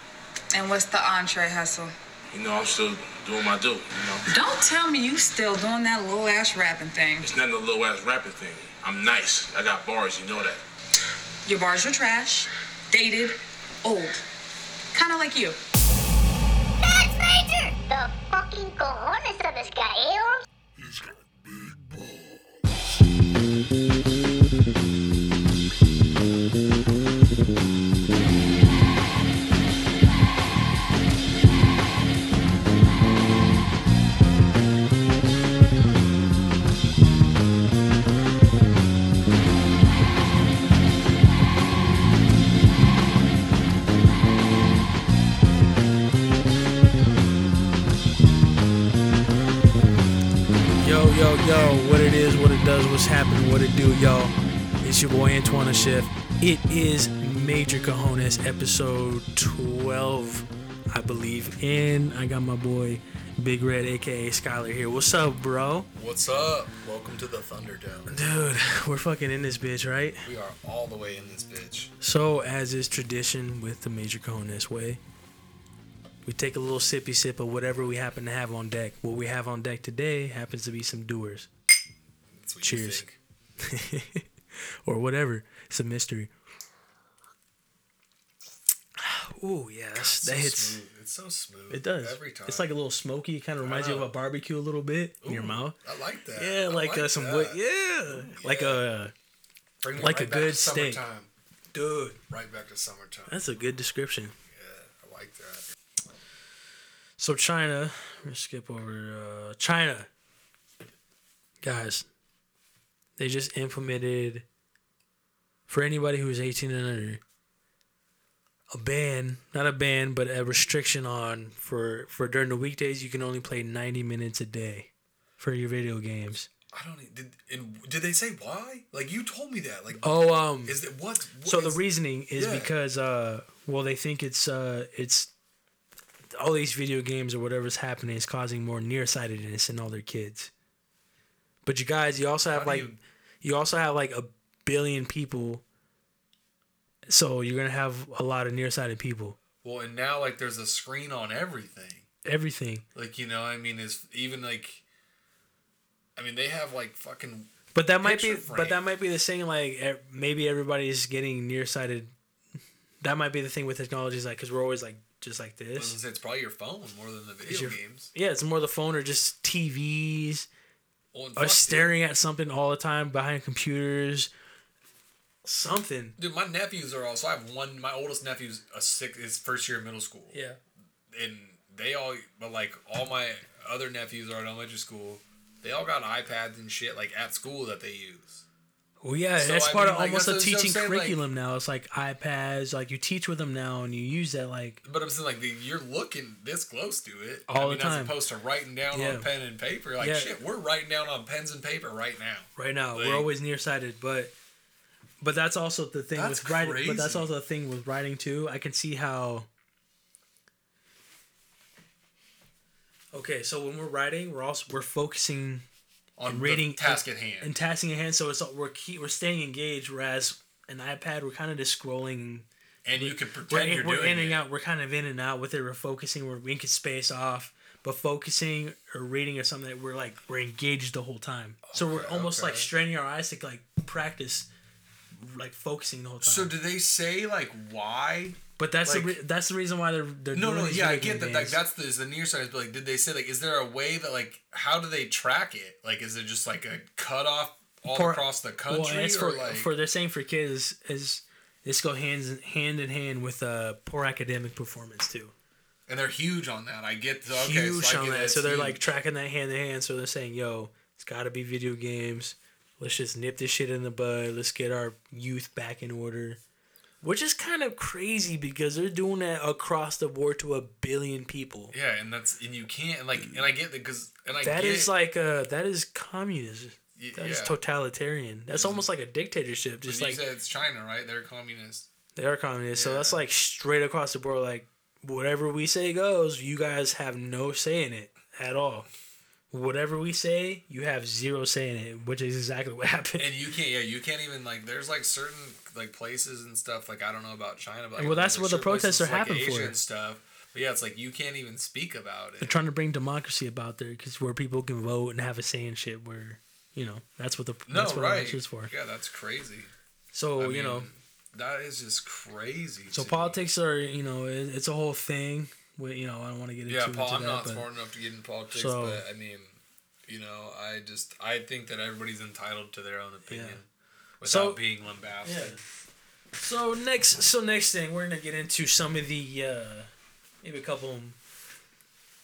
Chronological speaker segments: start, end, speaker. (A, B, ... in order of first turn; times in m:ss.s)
0:00.5-0:01.9 A
0:02.3-0:04.2 B
0:04.3-0:07.3 A
0:07.2-0:10.6 B
0:11.4-0:14.2 A
0:14.9-0:15.6 A
0:16.8-0:20.4 C
0:50.8-1:05.9 D
1:06.0-1:08.2 E
1:08.1-1:10.2 D
1:10.2-1:11.9 E
1:12.0-1:15.0 D
1:16.2-1:21.5 D
1:22.3-1:23.2 E
1:22.6-1:23.0 D
1:23.6-1:24.2 D
1:24.8-1:26.3 D
1:29.0-1:30.8 D
1:29.9-1:32.7 E
1:31.7-1:35.8 D
1:33.6-1:34.1 E
1:35.2-1:38.8 E
1:36.3-1:39.1 D
1:39.8-1:41.3 E
1:39.9-1:41.0 D
1:41.7-1:42.2 D
1:42.3-1:43.4 E
1:43.3-1:44.3 D
1:44.5-1:45.6 E
1:47.2-1:50.1 D
1:51.6-1:52.0 D
1:53.2-1:54.4 D
1:55.7-1:57.2 D
1:58.7-2:06.5 D
2:06.7-2:11.8 E
2:10.0-2:10.8 D
2:11.4-2:15.3 D
2:12.3-2:12.7 E
2:16.3-2:20.5 D
2:21.6-2:22.9 D
2:22.5-2:23.0 E
2:23.4-2:25.6 D
2:27.1-2:29.4 D
2:29.6-2:32.1 E
2:32.2-2:32.8 D
2:32.9-2:34.8 E
2:36.2-2:38.8 E
2:37.7-2:42.1 D
2:43.0-2:45.9 D
2:45.8-2:48.1 E
2:47.4-2:50.5 D
2:51.1-2:51.9 E
2:51.4-2:54.3 D
2:55.4-2:56.2 D
2:56.2-3:00.4 E
3:00.3-3:00.6 D
3:01.1-3:08.4 E
3:09.0-3:14.8 D
3:09.4-3:11.2 E
3:14.8-3:23.3 E
3:17.5-3:18.1 D
3:18.9-3:19.3 D
3:20.0-3:20.3 D
3:22.6-3:24.3 D
3:25.2-3:29.5 D
3:26.1-3:27.3 E
3:33.1-3:35.6 D
3:36.2-3:37.5 E
3:36.3-3:54.5 D
3:42.8-3:44.4 E
3:51.6-3:52.7 E
3:55.2-3:56.5 D
3:56.2-3:59.2 E
3:58.6-4:01.6 D
4:00.3-4:09.7 E
4:07.9-4:15.3 D
4:15.9-4:18.9 E
4:17.3-4:26.4 D
4:27.0-4:31.7 D
4:31.7-4:34.9 E
4:34.4-4:40.2 D
4:37.0-4:37.6 E
4:38.5-4:38.8 E
4:39.8-4:41.9 E
4:42.2-4:48.8 D
4:42.7-4:43.2 E
4:49.5-4:53.3 D
4:53.2-5:02.6 E
4:58.0-4:59.8 D
5:02.4-5:08.7 D
5:07.7-5:09.7 E
5:10.1-5:10.9 D
5:10.4-5:13.4 E
5:12.9-5:17.7 D
5:16.7-5:23.7 E
5:18.5-5:19.0 D
5:23.3-5:23.6 D
5:24.2-5:25.6 E
5:24.2-5:24.6 D
5:25.2-5:25.6 D
5:26.4-5:29.9 D
5:30.4-5:31.2 D